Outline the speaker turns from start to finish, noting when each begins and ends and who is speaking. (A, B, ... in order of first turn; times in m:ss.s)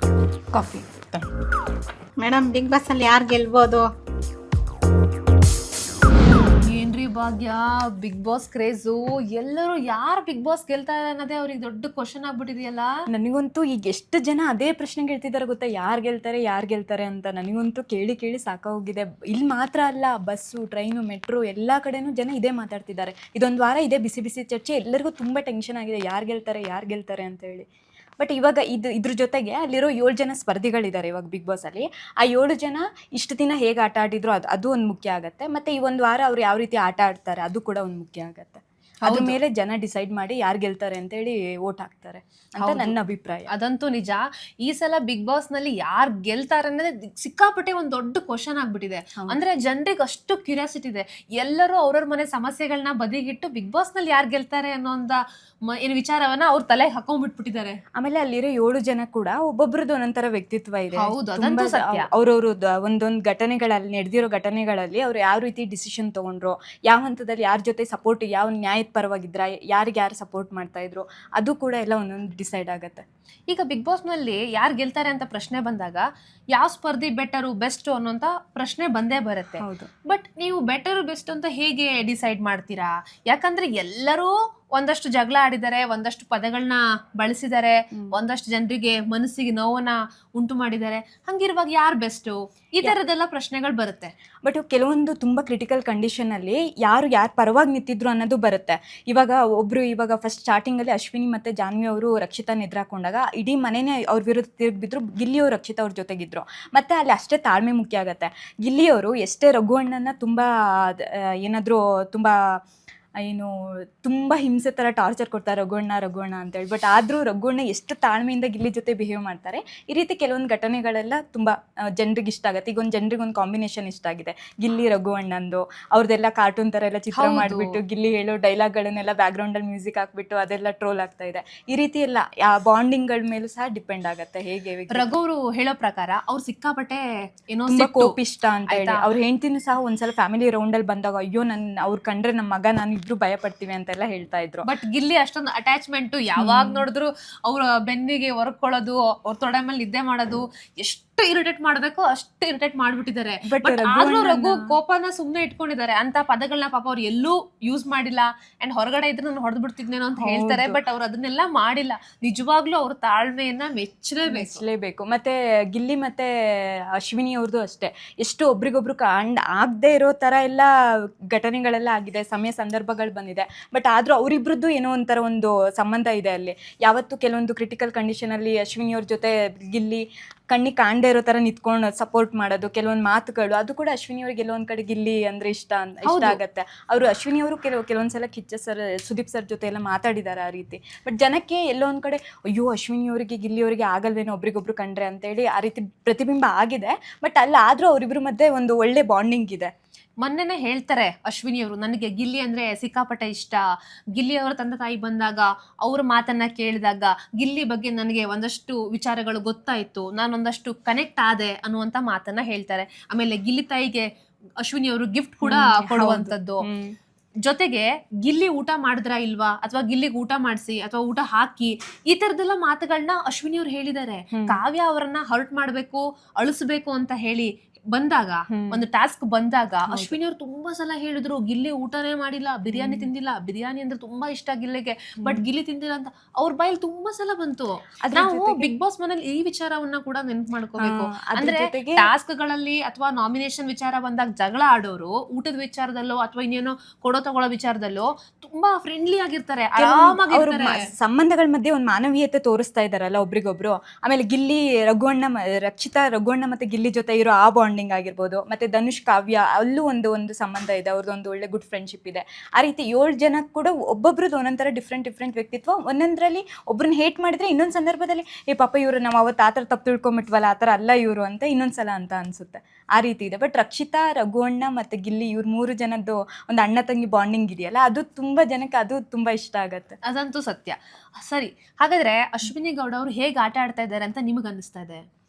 0:00.6-0:01.2 A
0:02.2-0:03.9 A
0:06.6-0:12.9 B
0:13.1-0:27.6 C
0:28.2-0:43.5 C
0:39.0-0:39.4 B
0:42.6-0:43.0 B
0:43.5-0:57.8 B
0:58.0-1:13.0 C
1:00.9-1:02.1 B
1:13.5-1:34.1 B
1:19.6-1:19.9 C
1:34.4-1:52.3 C
1:53.2-2:15.1 C
2:07.1-2:07.8 B
2:14.9-2:18.2 B
2:17.7-2:24.7 C
2:18.7-2:19.1 B
2:24.6-2:44.6 B
2:26.4-2:26.8 C
2:33.4-2:34.8 C
2:40.2-2:40.8 C
2:44.3-2:50.7 C
2:51.3-3:19.7 C
3:06.0-3:06.4 B
3:20.2-3:23.6 B
3:24.2-3:34.1 B
3:34.6-3:36.6 B
3:35.4-3:37.0 C
3:37.4-4:10.9 B
3:44.3-3:44.6 C
3:48.5-3:48.8 C
3:49.9-3:50.2 C
3:52.7-3:53.1 C
3:58.0-3:58.7 C
4:00.8-4:02.1 C
4:09.8-4:40.0 C
4:40.0-4:45.0 B